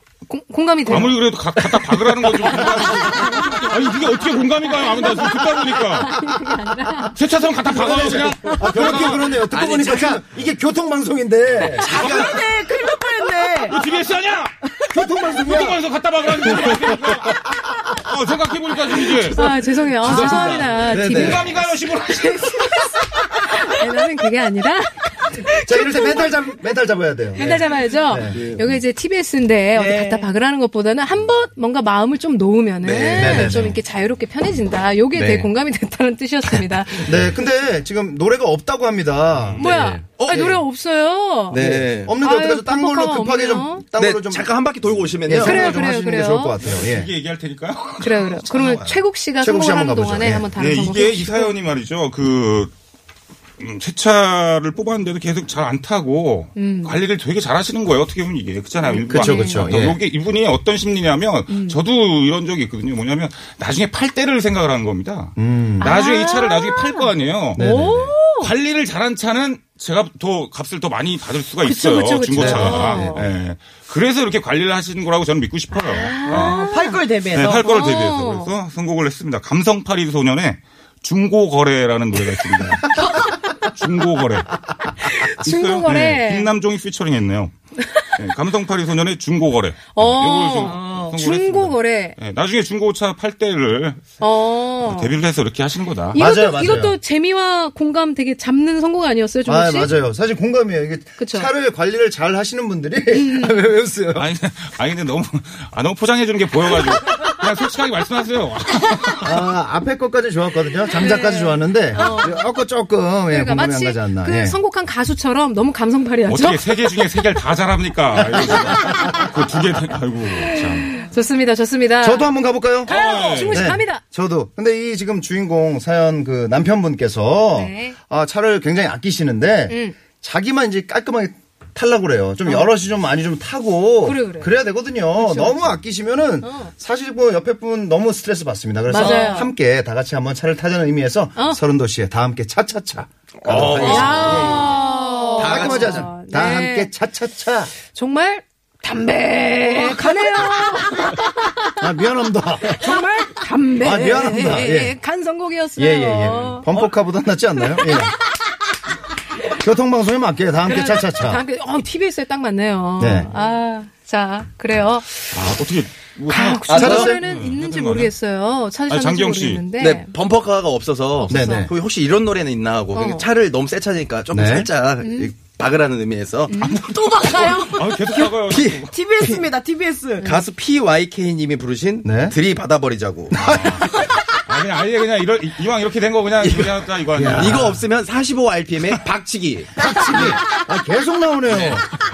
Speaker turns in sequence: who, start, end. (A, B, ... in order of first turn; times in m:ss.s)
0:00.3-0:01.2 A
0:00.9-0:06.2 B
0:02.7-0:03.6 A
0:04.7-0:07.2 A
0:07.2-0:09.4 B
0:07.7-0:12.4 C
0:07.8-0:08.6 A
0:09.3-0:10.3 D
0:11.5-0:11.9 D
0:11.8-0:13.8 E
0:11.8-0:12.4 B
0:13.6-0:14.6 B
0:14.8-0:15.8 C
0:15.3-0:19.5 B
0:16.7-0:17.2 C
0:19.3-0:21.6 A
0:20.0-0:21.4 D
0:20.0-0:22.7 B
0:20.9-0:21.4 C
0:22.4-0:26.3 A
0:25.6-0:28.6 C
0:27.4-0:37.1 A
0:29.8-0:30.3 E
0:32.8-0:33.6 D
0:33.1-0:33.8 C
0:35.1-0:35.5 D
0:37.0-0:39.7 C
0:39.5-0:40.6 D
0:39.6-0:41.6 A
0:40.3-0:40.6 C
0:41.5-0:42.1 D
0:41.6-0:44.7 C
0:42.2-0:43.8 A
0:44.0-0:45.8 D
0:45.2-0:47.1 C
0:45.3-0:46.6 A
0:46.6-0:49.0 B
0:48.0-0:51.6 A
0:49.4-0:50.5 C
0:50.6-0:52.7 B
0:53.6-1:07.6 B
0:56.6-0:57.0 A
0:58.8-0:59.8 A
0:59.1-1:00.0 C
1:01.5-1:01.8 A
1:05.4-1:05.9 C
1:05.8-1:08.5 A
1:07.6-1:08.2 C
1:08.4-1:16.6 B
1:11.6-1:13.2 A
1:12.4-1:13.3 C
1:15.8-1:17.0 A
1:16.3-1:17.8 E
1:17.3-1:24.5 B
1:17.6-1:18.5 A
1:25.1-1:27.6 B
1:25.1-1:26.5 A
1:28.1-1:36.2 B
1:30.0-1:32.2 A
1:30.9-1:31.1 E
1:34.2-1:35.2 A
1:36.1-1:39.9 A
1:36.2-1:37.0 C
1:39.5-1:44.3 C
1:41.2-1:41.5 A
1:43.1-1:43.6 A
1:44.2-1:49.5 B
1:49.2-1:54.6 C
1:51.0-1:52.4 A
1:53.3-1:56.7 A
1:56.3-2:01.0 B
1:58.2-1:59.1 C
2:00.9-2:02.3 A
2:02.0-2:03.0 C
2:02.8-2:04.0 A
2:02.9-2:03.7 B
2:03.5-2:24.8 C
2:07.5-2:08.0 A
2:09.7-2:10.0 A
2:12.4-2:12.7 A
2:14.0-2:14.5 A
2:15.2-2:15.8 A
2:16.4-2:16.7 A
2:18.9-2:19.5 A
2:23.4-2:24.8 D
2:23.8-2:26.9 A
2:25.4-2:26.1 D
2:25.4-2:27.7 C
2:27.9-2:31.8 A
2:31.8-2:33.0 C
2:32.7-2:36.7 A
2:33.8-2:35.0 C
2:35.8-2:38.2 C
2:39.5-2:41.4 C
2:40.6-2:45.4 A
2:43.0-2:43.3 C
2:45.3-2:48.1 B
2:46.3-2:50.1 A
2:46.7-2:47.1 D
2:46.7-2:47.2 C
2:48.9-2:49.6 B
2:49.8-2:57.6 D
2:51.2-2:51.7 A
2:51.3-2:51.7 C
2:52.9-2:53.3 A
2:54.3-2:54.7 C
2:55.0-2:55.3 A
2:56.5-2:56.8 A
2:56.8-2:58.1 E
2:57.5-2:58.9 B
2:58.1-2:59.5 D
2:58.9-3:00.4 E
3:00.2-3:03.4 D
3:02.0-3:02.4 C
3:03.3-3:03.9 C
3:03.4-3:03.9 B
3:04.4-3:07.8 B
3:06.4-3:10.4 D
3:07.2-3:07.8 C
3:09.8-3:11.8 C
3:11.5-3:11.8 D